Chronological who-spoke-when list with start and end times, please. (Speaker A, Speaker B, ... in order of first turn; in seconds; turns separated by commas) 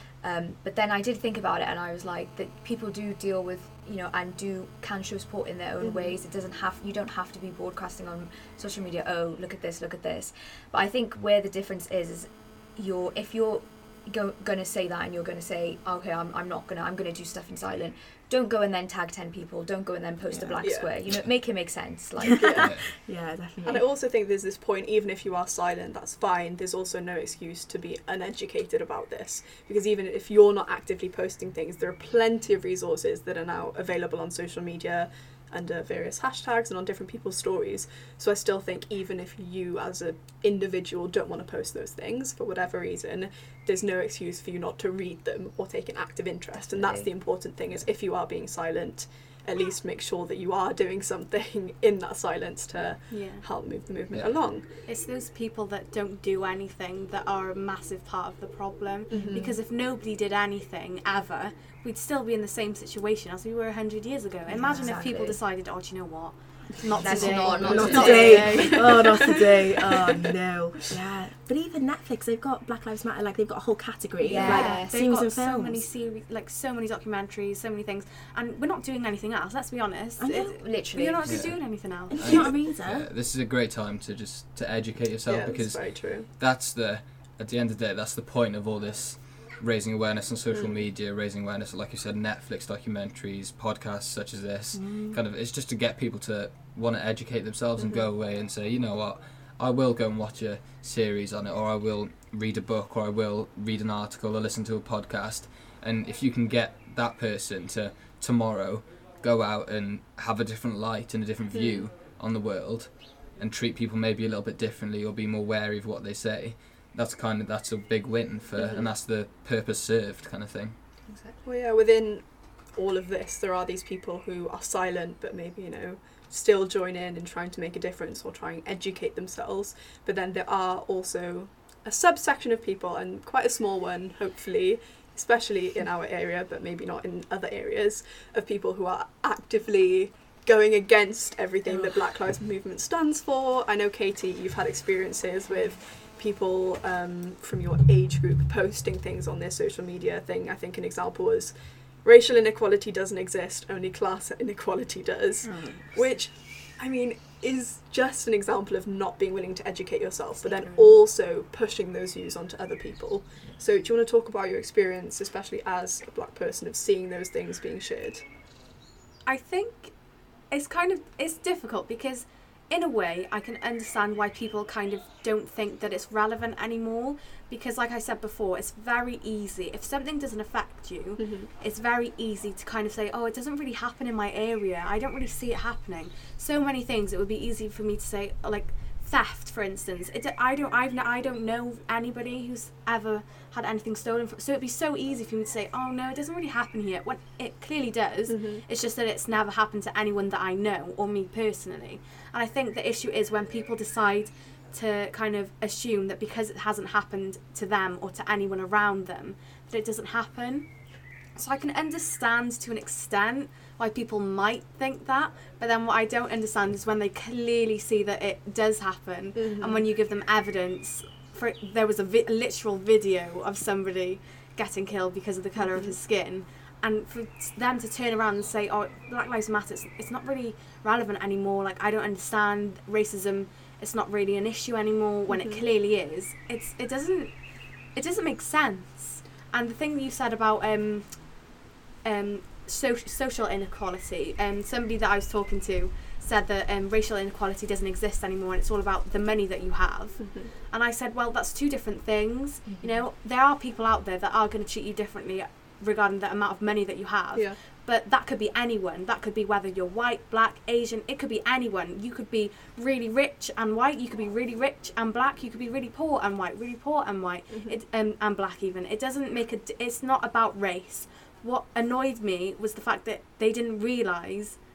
Speaker A: 0.2-22.6, Speaker B: 5.8-6.1, Speaker C: 20.3-20.7, Speaker B: 20.6-20.9, Speaker C: 22.3-23.8, Speaker B: 22.4-22.7, Speaker D: 22.6-22.9, Speaker B: 23.6-54.7, Speaker A: 46.6-47.1, Speaker E: 53.1-53.4, Speaker E: 54.8-69.2, Speaker B: 59.1-59.5, Speaker A: 59.1-59.6, Speaker A: 64.5-65.4, Speaker C: 64.6-65.3, Speaker C: 66.9-75.8, Speaker A: 67.0-68.8, Speaker B: 67.5-69.4, Speaker A: 74.2-75.0, Speaker E: 74.4-82.5, Speaker C: 80.2-80.5, Speaker A: 80.5-81.3, Speaker D: 81.2-120.8, Speaker C: 82.1-83.1, Speaker B: 85.3-86.3, Speaker B: 90.5-90.8, Speaker C: 94.8-95.1, Speaker B: 97.8-98.1, Speaker B: 111.5-111.9, Speaker B: 118.5-118.9, Speaker A: 121.1-121.3, Speaker B: 121.4-168.2, Speaker A: 145.5-145.8, Speaker C: 155.4-155.9, Speaker A: 160.4-160.9, Speaker E: 169.2-169.9, Speaker E: 170.5-210.7, Speaker B: 181.2-181.5, Speaker B: 198.3-198.6, Speaker E: 211.3-241.4, Speaker B: 219.3-219.8, Speaker B: 225.6-226.0, Speaker B: 235.3-235.6, Speaker E: 242.0-274.6, Speaker B: 250.2-250.5, Speaker A: 252.7-253.0, Speaker B: 267.5-267.8